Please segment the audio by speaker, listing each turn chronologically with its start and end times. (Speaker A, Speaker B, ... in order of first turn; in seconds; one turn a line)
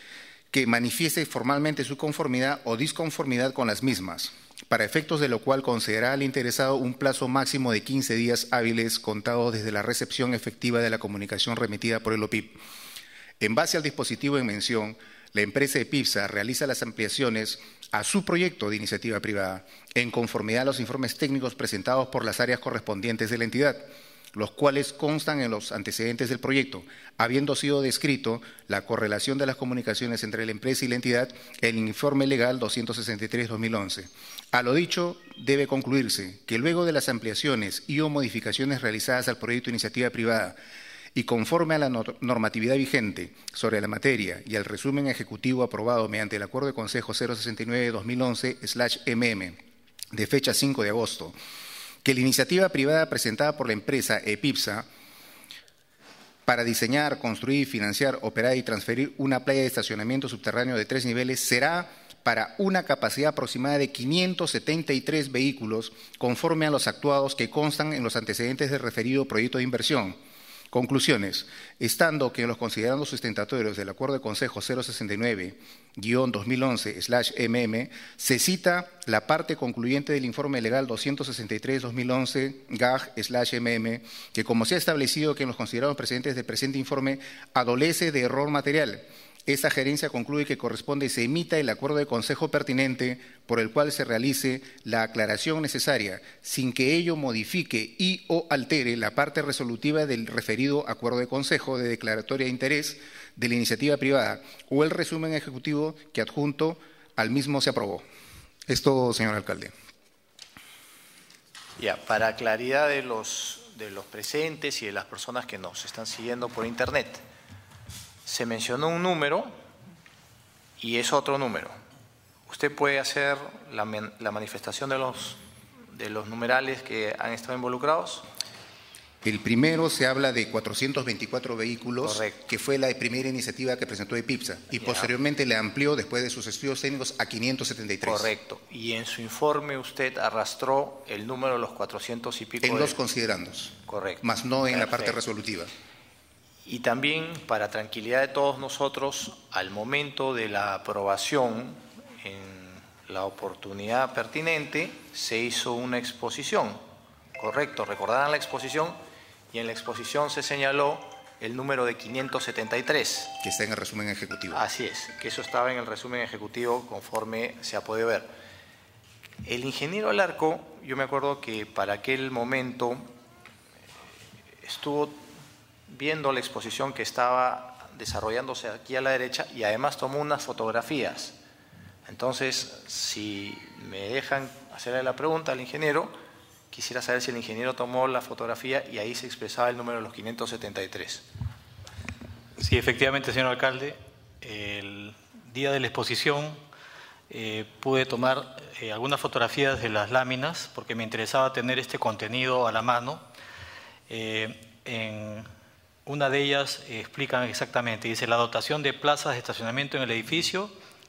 Speaker A: 0.5-12.6
Speaker A: 13.4-40.6
Speaker A: 41.1-49.6
Speaker A: 50.1-51.3
Speaker A: 52.0-54.9
Speaker A: 56.5-70.2
Speaker A: 70.7-108.0
Speaker A: 108.7-109.7
Speaker B: 111.8-117.2
Speaker B: 118.3-119.5
Speaker B: 120.8-121.7
Speaker B: 122.5-125.4
Speaker B: 125.9-128.2
Speaker A: 129.2-138.3
Speaker B: 132.0-132.4
Speaker B: 134.7-135.1
Speaker B: 138.0-143.0
Speaker A: 142.6-145.7
Speaker B: 143.9-145.2
Speaker B: 146.7-156.8
Speaker B: 157.4-159.0
Speaker B: 159.5-163.3
Speaker A: 163.4-164.6
Speaker B: 164.5-168.3
Speaker B: 169.4-173.1
Speaker B: 174.6-175.2
Speaker B: 175.9-181.4
Speaker B: 182.1-186.1
Speaker B: 186.7-191.2
Speaker C: 192.6-196.6
Speaker C: 197.3-203.2
Speaker C: 204.1-205.5
Speaker C: 206.1-210.7